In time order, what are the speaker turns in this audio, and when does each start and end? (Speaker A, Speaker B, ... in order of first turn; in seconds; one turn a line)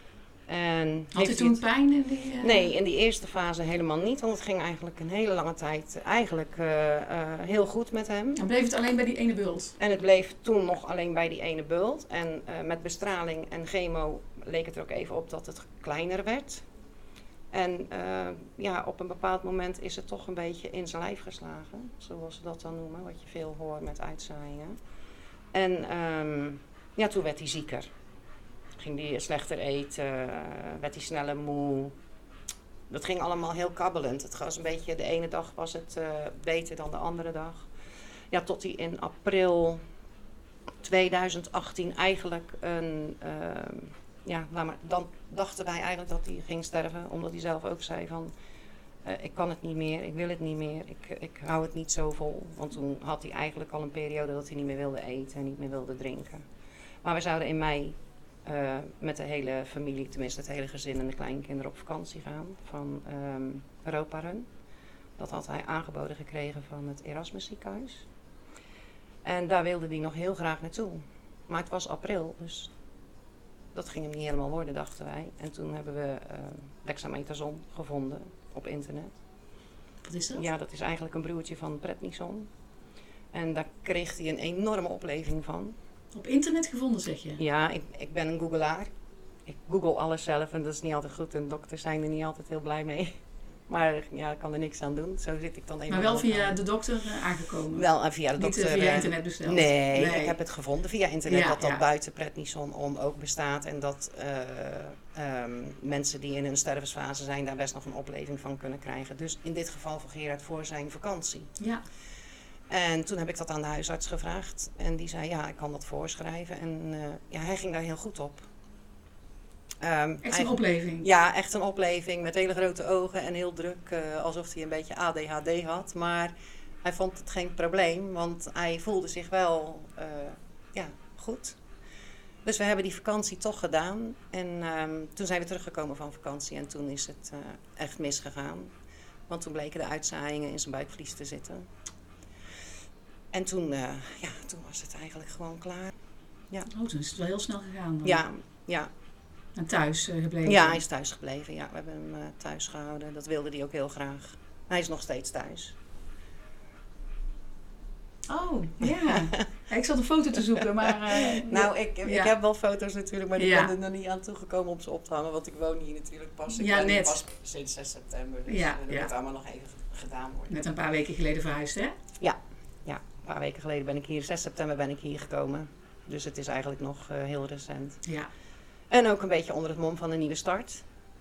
Speaker A: 0.5-1.6
Speaker B: 1.1-2.7
Speaker A: 2.4-8.4
Speaker B: 8.3-9.7
Speaker A: 9.8-16.6
Speaker A: 17.5-24.8
Speaker A: 25.5-27.9
Speaker A: 28.8-31.9
Speaker A: 32.9-37.7
Speaker A: 38.3-39.8
Speaker A: 40.8-48.3
Speaker A: 49.0-56.5
Speaker A: 57.0-64.5
Speaker A: 65.2-68.1
Speaker A: 69.2-72.7
Speaker A: 73.7-79.1
Speaker B: 80.0-80.5
Speaker A: 80.3-82.5
Speaker A: 83.3-85.8
Speaker B: 86.1-87.4
Speaker A: 87.4-88.9
Speaker A: 89.5-93.2
Speaker A: 93.7-96.6
Speaker B: 95.9-100.4
Speaker A: 97.7-111.5
Speaker B: 101.3-101.8
Speaker A: 112.7-118.5
Speaker A: 119.8-126.3
Speaker B: 120.2-121.1
Speaker A: 126.8-131.6
Speaker A: 132.4-138.7
Speaker A: 139.3-141.7
Speaker A: 143.3-145.9
Speaker B: 146.7-148.2
Speaker A: 148.0-148.9
Speaker B: 149.6-150.8
Speaker A: 150.4-155.8
Speaker B: 158.3-162.3
Speaker A: 158.8-159.4
Speaker A: 160.4-170.5
Speaker B: 163.3-163.7
Speaker B: 166.5-167.2
Speaker B: 168.5-169.1
Speaker B: 170.5-171.9
Speaker A: 172.2-178.0
Speaker B: 178.0-178.3
Speaker A: 178.9-180.8